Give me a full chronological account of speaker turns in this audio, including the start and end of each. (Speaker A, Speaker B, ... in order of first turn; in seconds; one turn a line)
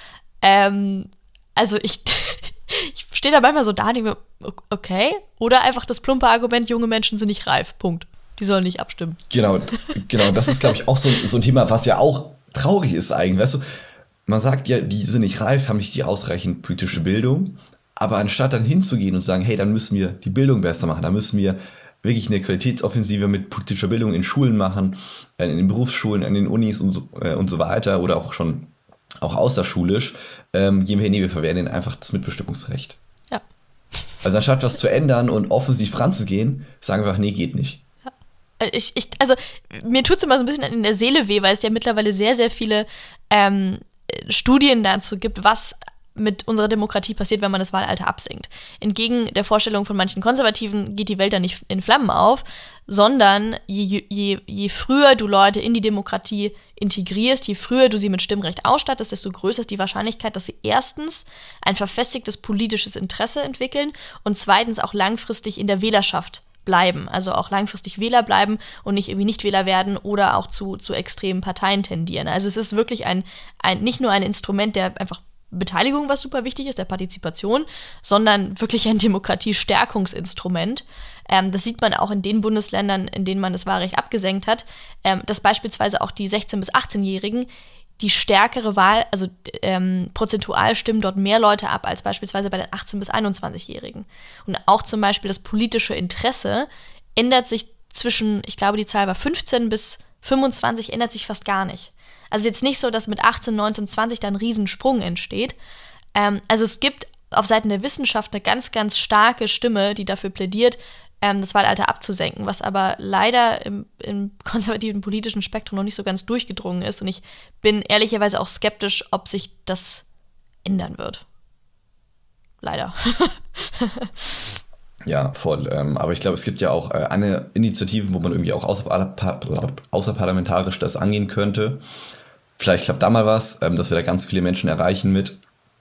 Speaker A: 0.4-9.2
Speaker B: 9.3-13.6
Speaker A: 10.2-10.6
Speaker B: 14.3-28.7
Speaker B: 29.2-33.0
Speaker B: 34.2-37.8
Speaker A: 38.6-87.5
Speaker A: 88.0-105.6
Speaker A: 106.2-120.0
Speaker A: 120.7-121.2
Speaker A: 122.6-124.3
Speaker B: 125.1-131.8
Speaker B: 132.6-135.4